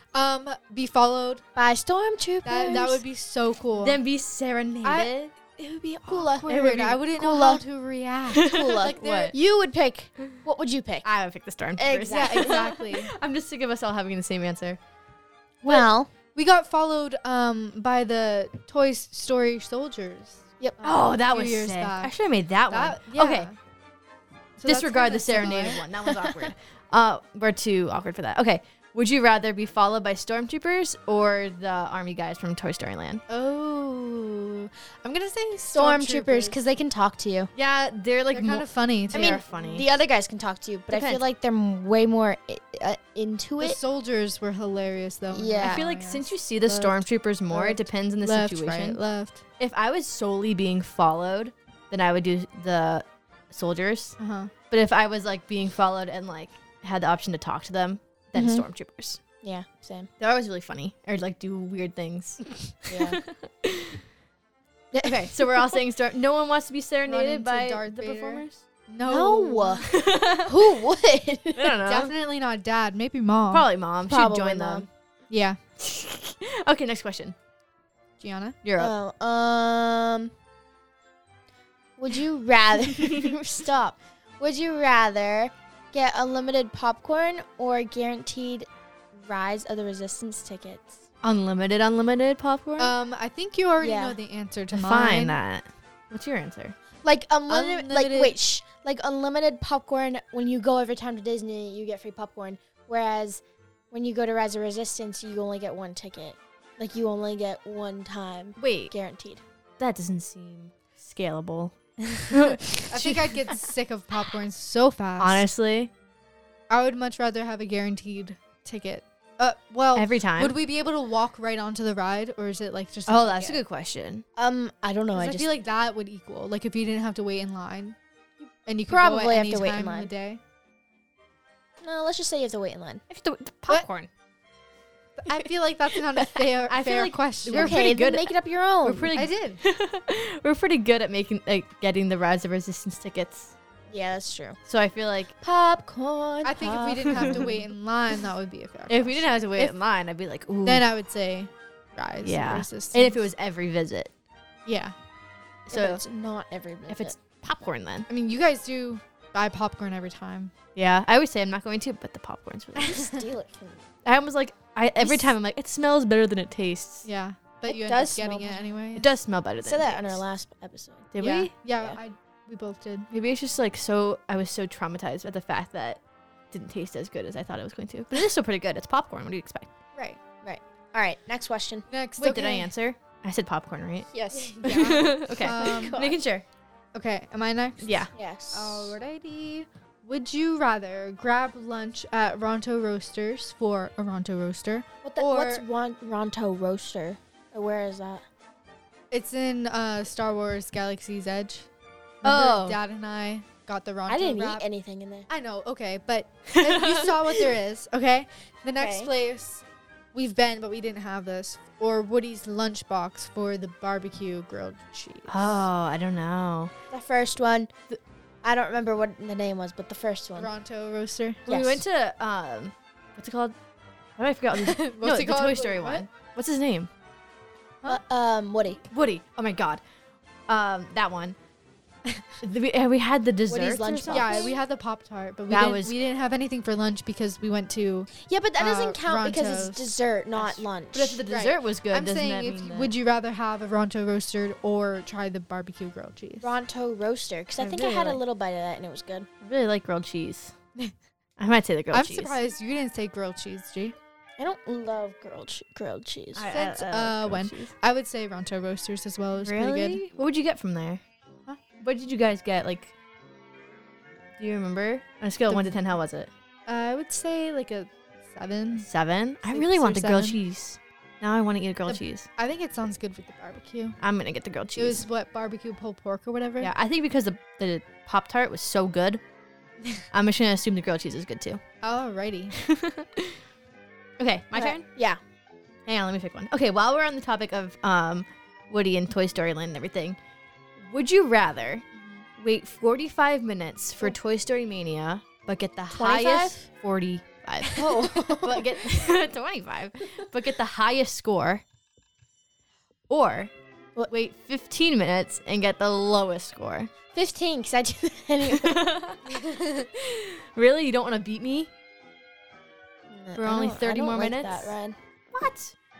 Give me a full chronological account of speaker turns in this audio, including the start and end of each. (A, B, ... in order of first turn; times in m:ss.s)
0:00.1-0:01.4 A
0:01.6-0:03.0 B
0:02.4-0:04.0 A
0:03.8-0:05.3 C
0:04.8-0:09.3 A
0:06.1-0:06.5 B
0:06.5-0:07.0 C
0:07.2-0:07.6 B
0:08.3-0:09.3 C
0:08.4-0:11.1 B
0:11.0-0:14.8 C
0:11.8-0:12.6 B
0:12.1-0:13.1 A
0:15.6-0:16.1 B
0:15.6-0:22.1 A
0:20.8-0:23.5 C
0:22.7-0:23.6 A
0:24.6-0:25.8 A
0:24.6-0:33.2 C
0:33.3-0:36.6 A
0:35.7-0:37.5 B
0:37.6-0:39.8 C
0:38.3-0:39.4 A
0:39.1-0:43.8 B
0:40.9-0:41.2 C
0:43.6-0:49.4 A
0:45.3-0:45.8 B
0:45.6-0:49.0 C
0:49.6-0:54.2 C
0:54.2-0:54.5 A
0:54.7-0:59.2 C
0:58.3-0:58.6 B
0:59.4-1:00.1 B
1:00.2-1:04.0 C
1:02.9-1:03.2 B
1:04.9-1:05.8 B
1:05.0-1:08.6 C
1:07.0-1:09.9 A
1:09.0-1:11.8 B
1:09.8-1:10.8 C
1:11.5-1:12.1 C
1:11.8-1:13.6 A
1:13.5-1:14.9 C
1:14.0-1:14.9 B
1:15.3-1:15.6 A
1:15.8-1:17.4 C
1:18.2-1:18.6 A
1:18.6-1:18.9 C
1:18.8-1:20.3 B
1:22.0-1:31.0 B
1:31.2-1:32.9 C
1:32.8-1:35.4 A
1:33.8-1:34.2 B
1:34.7-1:36.8 C
1:37.0-1:49.4 B
1:37.5-1:38.4 A
1:48.6-1:48.9 C
1:49.8-1:53.4 C
1:52.9-1:55.4 A
1:55.2-1:55.9 C
1:56.7-2:03.6 A
1:59.9-2:00.5 C
2:03.1-2:04.2 C
2:04.4-2:05.5 B
2:05.1-2:08.0 A
2:08.6-2:10.4 A
2:08.9-2:10.1 B
2:11.8-2:13.0 B
2:13.1-2:14.1 C
2:15.2-2:17.8 A
2:16.0-2:16.4 B
2:16.7-2:23.5 C
2:17.5-2:19.1 B
2:19.1-2:19.6 A
2:23.9-2:24.6 B
2:24.7-2:25.3 C
2:25.4-2:27.5 B
2:26.4-2:29.7 A
2:27.1-2:27.5 C
2:28.9-2:30.8 C
2:30.6-2:33.2 A
2:32.2-2:34.1 C
2:34.6-2:34.9 A
2:35.7-2:36.0 C
2:35.7-2:37.1 B
2:36.9-2:38.1 C
2:38.1-2:40.5 A
2:40.7-2:43.1 C
2:42.8-2:43.8 B
2:44.0-2:47.1 C
2:47.0-2:49.1 A
2:47.6-2:48.6 B
2:49.0-2:50.2 C
2:49.6-2:51.1 B
2:51.1-2:51.5 C
2:51.2-2:53.1 A
2:53.1-2:59.7 C
2:59.9-3:00.2 A
3:00.4-3:01.8 B
3:01.9-3:02.7 A
3:02.2-3:06.4 C
3:04.1-3:06.2 B
3:04.3-3:06.0 A
3:06.9-3:15.6 A
3:07.8-3:08.1 C
3:08.1-3:09.0 B
3:15.0-3:18.2 B
3:19.1-3:21.7 A
3:22.2-3:24.6 A
3:22.2-3:22.8 C
3:24.1-3:25.3 B
3:25.3-3:35.7 A
3:26.5-3:27.5 C
3:28.8-3:29.1 B
3:35.3-3:36.7 C
3:36.9-3:37.7 B
3:38.4-3:40.5 B
3:40.4-3:41.4 A
3:41.5-3:41.8 B
3:41.5-3:43.5 C
3:44.2-3:46.9 C
3:44.5-3:46.0 A
3:47.8-3:48.8 B
3:48.9-3:49.8 C
3:50.5-3:51.4 C
3:52.0-3:52.3 A
3:52.4-3:54.5 C
3:53.5-3:54.5 B
3:54.1-4:00.6 A
3:55.5-3:55.9 C
3:58.2-4:01.2 B
4:00.9-4:02.9 C
4:01.2-4:06.5 A
4:06.4-4:09.3 B
4:07.6-4:08.2 C
4:09.4-4:10.5 C
4:11.4-4:12.4 C
4:11.9-4:14.0 A
4:14.4-4:16.5 B
4:16.3-4:17.7 C
4:16.5-4:20.0 A
4:19.4-4:21.0 C
4:21.8-4:22.9 C
4:24.4-4:26.3 C
4:25.5-4:25.8 A
4:26.7-4:28.9 A
4:28.8-4:32.3 C
4:29.5-4:30.4 A
4:31.8-4:34.0 A
4:34.0-4:35.0 C
4:34.8-4:36.7 A
4:36.6-4:39.2 C
4:40.1-4:41.6 C
4:41.8-4:42.6 A
4:42.6-4:43.4 C
4:44.2-4:44.8 C
4:44.5-4:45.2 B
4:45.9-4:50.2 C
4:50.8-4:51.8 C
4:52.0-4:52.2 A
4:52.4-5:01.6 C
4:55.9-4:56.6 B
4:57.6-4:58.8 B
5:03.1-5:03.5 C
5:04.1-5:06.9 C
5:07.1-5:08.9 B
5:08.5-5:09.2 C
5:09.3-5:09.9 A
5:09.8-5:11.7 C
5:13.1-5:15.0 B
5:13.4-5:14.7 C
5:15.3-5:15.7 C